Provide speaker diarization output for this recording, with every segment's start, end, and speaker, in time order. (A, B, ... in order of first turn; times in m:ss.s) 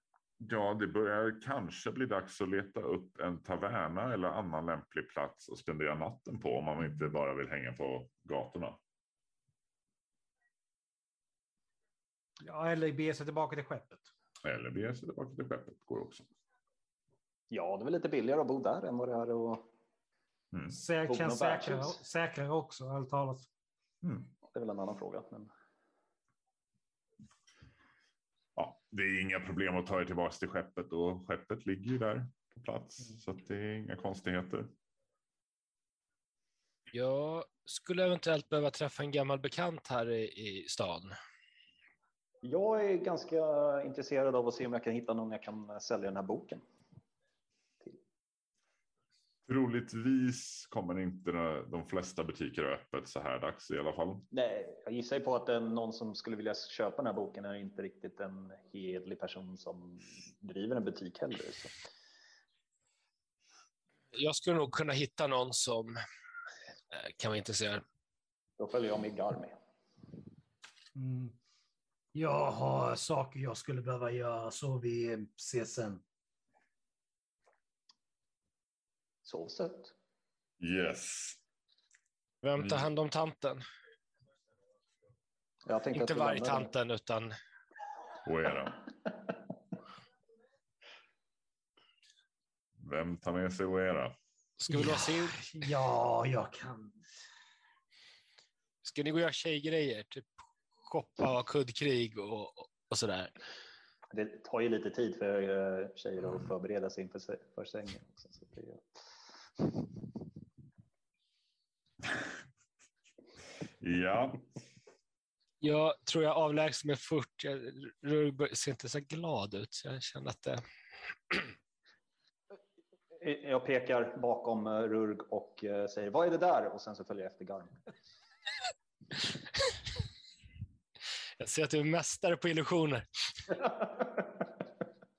0:00.4-0:08.8 A
0:12.4-0:14.1 B
0:14.4-0:16.3 A
0:17.5-0:19.7 C
0:20.7-0:23.5 B
0:21.1-0:22.0 C
0:24.0-0:24.3 A
0:24.5-0:25.5 C
0:28.6-0:34.7 A
0:36.9-0:41.2 D
0:42.4-0:46.6 C
0:49.5-0:54.3 A
0:54.3-1:01.8 C
1:04.1-1:06.0 D
1:06.9-1:07.8 D
1:08.6-1:09.6 C
1:11.0-1:11.4 B
1:12.2-1:16.0 B
1:19.2-1:19.9 C
1:20.6-1:21.4 A
1:22.4-1:23.6 D
1:22.6-1:22.9 A
1:25.7-1:26.7 C
1:25.9-1:27.3 D
1:28.2-1:28.8 A
1:32.8-1:34.2 A
1:34.6-1:35.6 D
1:34.7-1:37.0 B
1:38.8-1:43.4 D
1:44.1-1:48.9 C
1:49.6-1:49.9 C
1:53.8-1:54.4 A
1:55.6-2:00.6 D
2:03.2-2:07.8 C
2:11.4-2:13.5 D
2:13.6-2:14.4 C